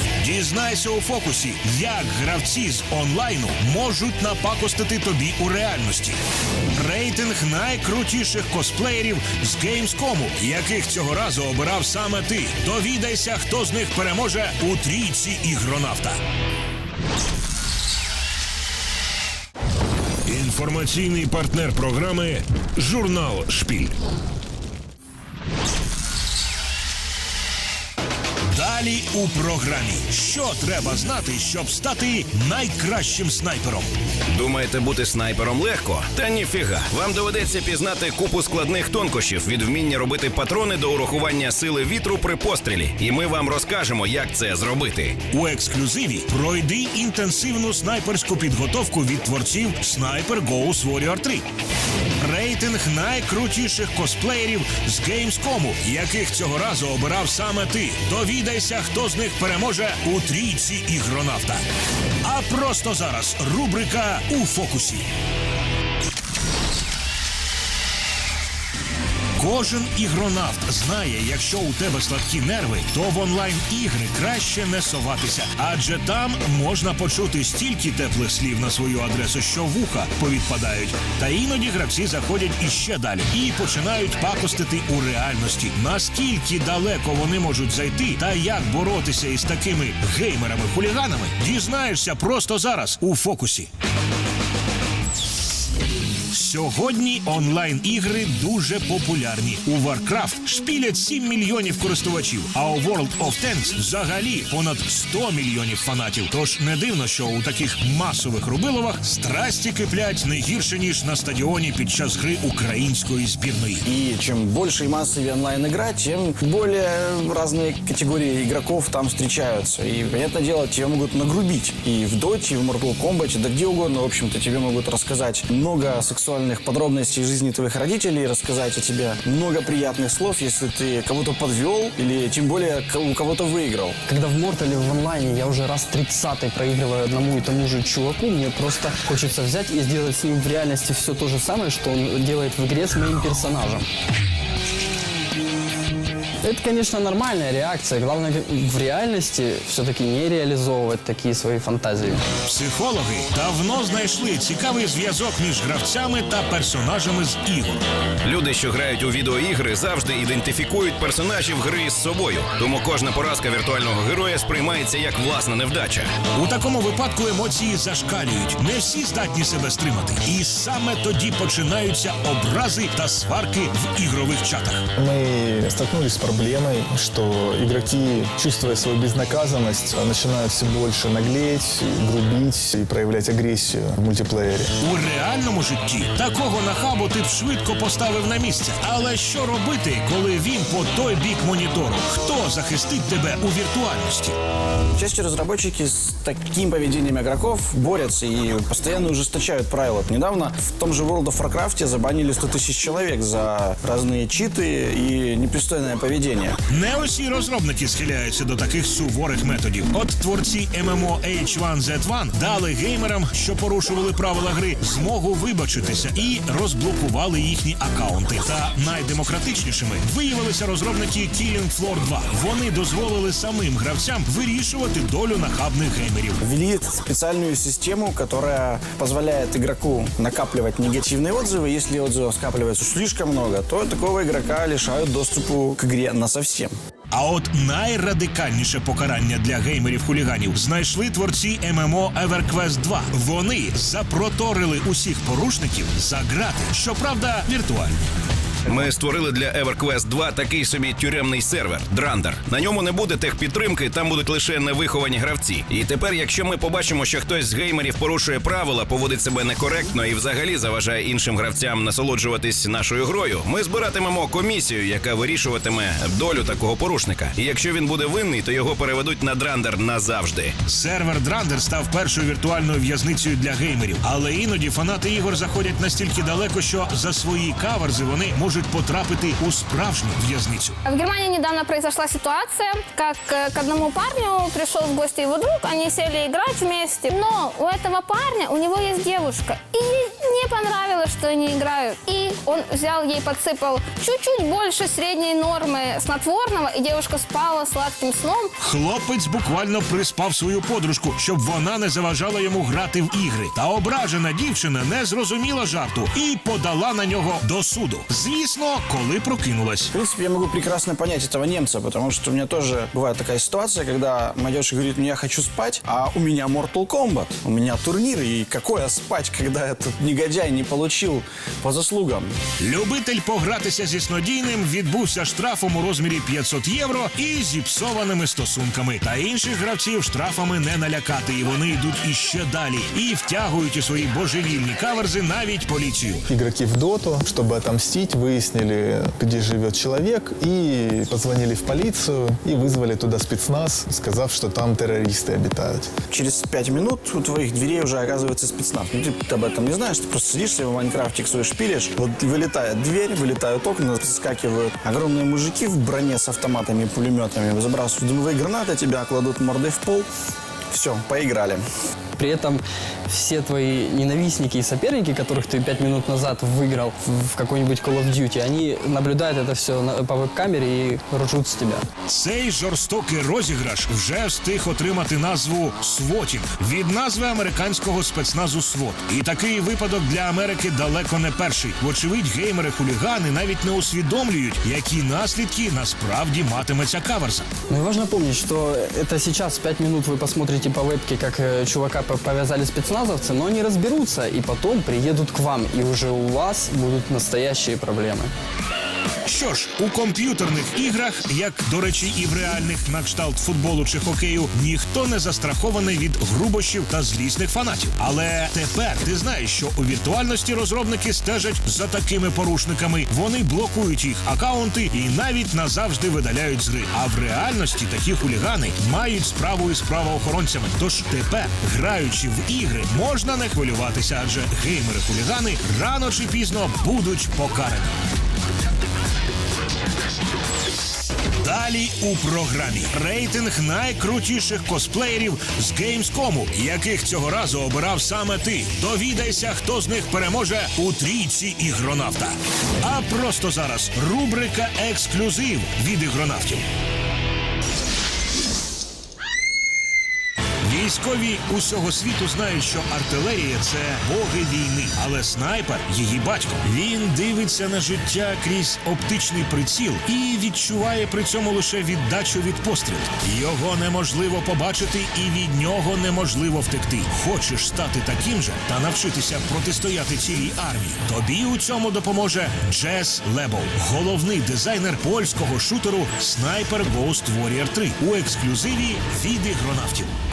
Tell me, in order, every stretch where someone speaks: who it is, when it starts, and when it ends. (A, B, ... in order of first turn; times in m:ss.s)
0:00.2-0:06.2 A
0:06.7-0:16.2 A
0:20.3-0:24.0 A
0:28.5-0:33.9 A
0:34.3-0:45.2 B
0:45.3-0:51.4 A
0:52.2-1:01.6 A
1:02.2-1:05.1 A
1:09.4-1:33.7 A
1:36.3-1:53.8 A
1:53.9-2:14.0 C
2:14.1-2:23.9 D
2:26.4-2:32.2 D
2:32.4-2:37.8 A
2:38.2-2:46.1 B
2:46.4-2:54.9 A
2:55.0-3:04.8 E
3:04.8-3:14.4 A
3:15.0-3:26.6 C
3:26.7-3:46.4 A
3:46.4-3:56.7 C
3:57.1-4:08.1 A
4:08.7-4:30.6 B
4:30.7-4:40.8 A
4:40.8-4:58.5 F
4:58.6-5:09.9 A
5:09.9-5:22.3 C
5:22.6-5:36.2 A
5:36.3-5:45.9 E
5:46.1-6:00.1 C
6:00.7-6:01.6 C
6:02.2-6:11.9 D
6:12.1-6:27.5 A
6:27.7-6:38.3 D
6:39.3-7:08.0 A
7:11.4-7:26.7 A
7:30.6-8:00.1 A